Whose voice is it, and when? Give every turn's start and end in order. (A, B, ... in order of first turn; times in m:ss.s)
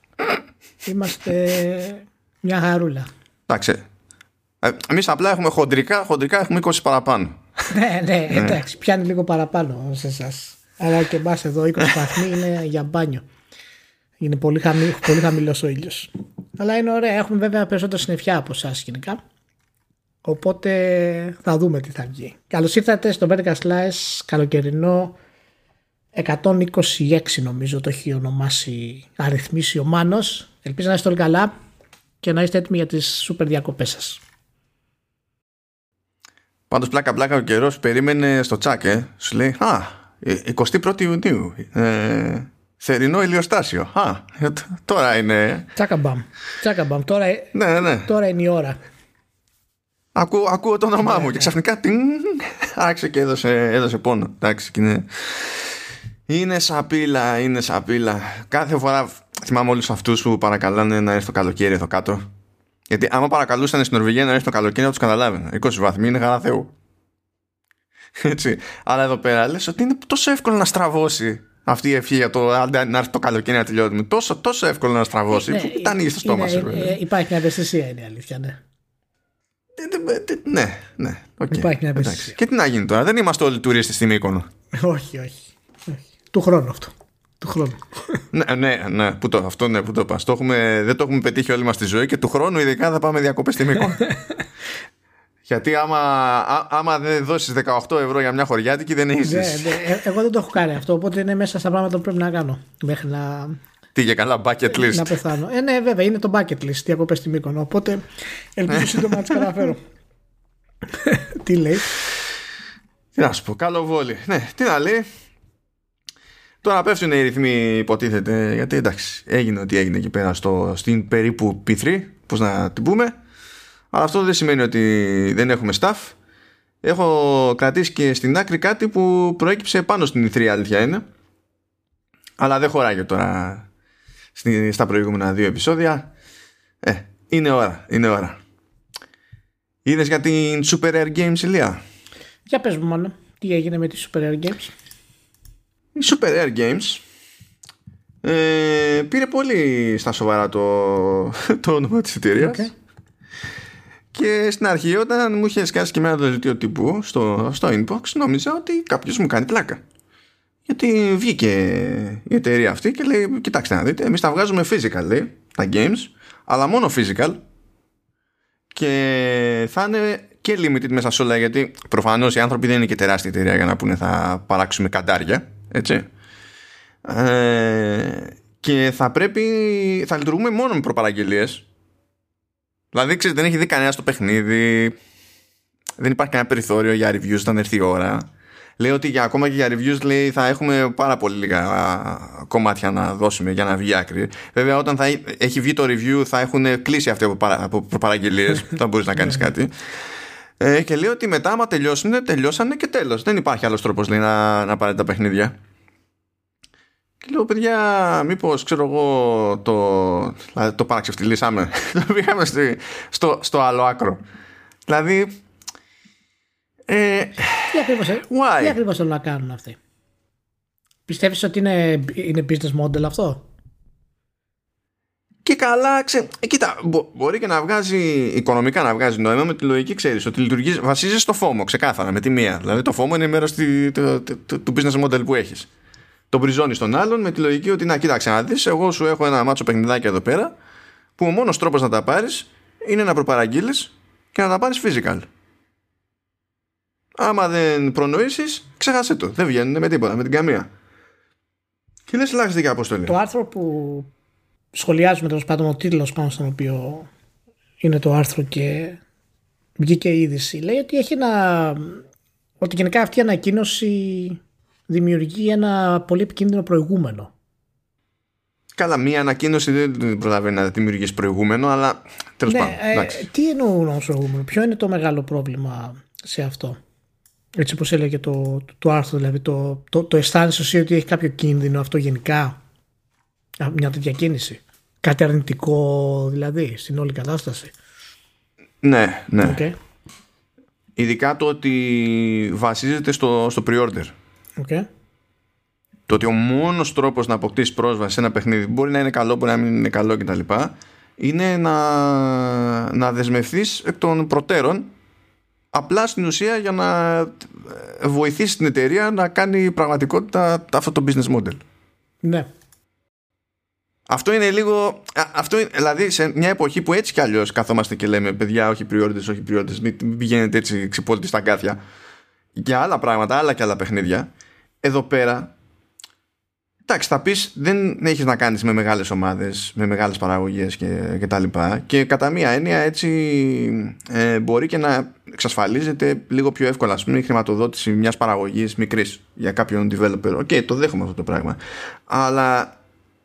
0:00.8-0:03.1 A
0:03.5-0:03.8 B
0:04.6-0:07.4 B
0:07.7-0:13.2 A
0:08.3-0:08.6 B
0:14.2-0:19.2 A
0:20.2-0:25.2 A
0:26.1-0:31.5 A
0:32.2-0:34.2 A
0:36.7-0:45.7 B
0:45.8-0:48.8 A
0:47.5-0:48.1 B
0:50.2-0:55.7 B
0:51.0-0:51.5 A
0:56.3-1:02.3 B
1:02.9-1:06.7 B
1:08.2-1:17.0 B
1:15.3-1:18.6 A
1:19.8-1:24.5 B
1:21.5-1:22.4 A
1:24.7-1:28.2 A
1:28.3-1:34.1 B
1:35.5-1:39.8 B
1:39.2-1:43.6 A
1:44.0-1:45.1 B
1:44.7-1:48.0 A
1:48.6-1:49.8 A
1:48.7-1:49.4 B
1:50.9-1:51.9 A
1:53.2-1:55.1 B
1:56.6-2:03.1 B
2:03.9-2:06.2 B
2:06.8-2:11.0 B
2:12.4-2:13.7 B
2:14.4-2:16.1 B
2:16.8-2:18.4 B
2:19.8-2:21.8 B
2:22.5-2:24.7 A
2:26.0-2:27.0 B
2:28.2-2:32.7 B
2:32.4-2:32.7 A
2:34.1-2:39.8 B
2:40.7-2:47.4 B
2:48.7-2:56.1 B
2:57.0-3:01.6 B
3:02.9-3:05.0 B
3:06.0-3:08.3 B
3:08.8-3:19.7 B
3:20.6-3:25.5 B
3:27.2-3:34.2 B
3:34.9-3:35.3 B
3:36.9-3:37.8 B
3:37.7-3:39.8 A
3:38.3-3:38.8 B
3:41.1-3:43.4 A
3:45.5-3:55.7 B
3:56.3-4:00.5 B
4:01.2-4:05.3 B
4:07.2-4:10.7 B
4:12.1-4:13.2 B
4:13.1-4:14.1 A
4:14.7-4:17.1 A
4:17.8-4:19.0 A
4:19.8-4:22.0 A
4:22.6-4:27.3 A
4:28.8-4:33.3 B
4:32.5-4:36.8 A
4:37.6-4:42.6 A
4:43.6-4:47.7 A
4:48.8-4:49.6 B
4:49.4-4:49.8 A
4:51.0-4:54.1 B
4:54.6-4:54.9 A
4:56.1-5:04.9 B
5:05.7-5:11.6 B
5:12.2-5:12.5 A
5:14.1-5:21.8 B
5:22.6-5:24.3 B
5:24.8-5:25.5 B
5:26.9-5:42.7 B